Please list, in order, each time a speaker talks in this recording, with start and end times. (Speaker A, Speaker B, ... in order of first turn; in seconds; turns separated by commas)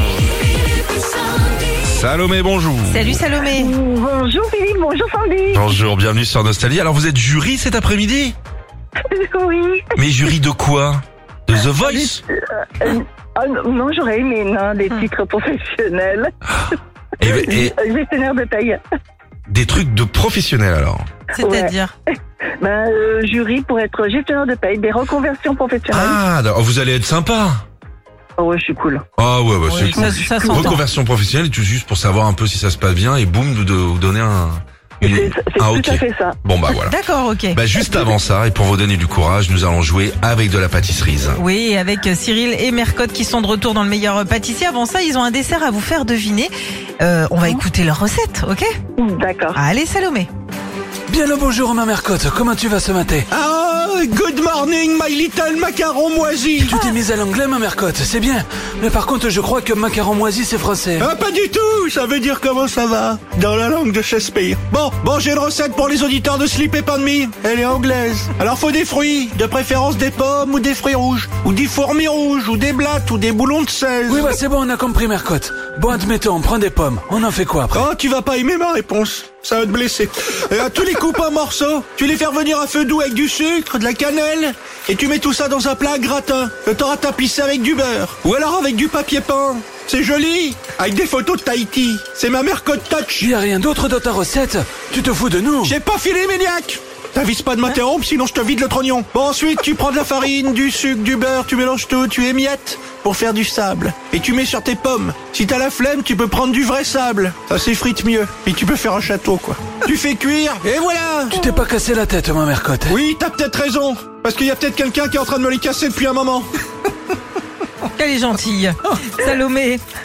Speaker A: 0.9-1.4, Speaker B: 1.8-3.2, Speaker C: 2.9-3.7, Speaker D: 3.5-5.7, Speaker B: 5.5-8.3, Speaker D: 9.1-10.3, Speaker B: 9.9-12.2, Speaker D: 11.8-16.3, Speaker B: 16.5-17.7, Speaker D: 17.2-18.8, Speaker B: 19.5-21.0, Speaker C: 21.4-21.9, Speaker D: 21.4-21.7, Speaker D: 22.6-26.2, Speaker B: 25.9-27.6, Speaker D: 28.4-29.0, Speaker B: 29.2-37.0, Speaker C: 29.7-30.8, Speaker D: 29.9-30.8, Speaker D: 35.0-36.8, Speaker C: 36.8-37.6, Speaker B: 37.5-41.4, Speaker D: 37.7-38.1, Speaker C: 41.4-48.7, Speaker D: 49.0-49.6, Speaker C: 49.5-50.3, Speaker A: 51.1-53.2, Speaker E: 53.3-56.7, Speaker A: 56.6-61.1, Speaker E: 61.0-74.3, Speaker A: 74.1-77.8, Speaker E: 77.7-93.3, Speaker A: 93.2-95.7, Speaker E: 95.6-111.4, Speaker A: 111.3-113.0, Speaker E: 112.9-116.5, Speaker C: 117.8-119.8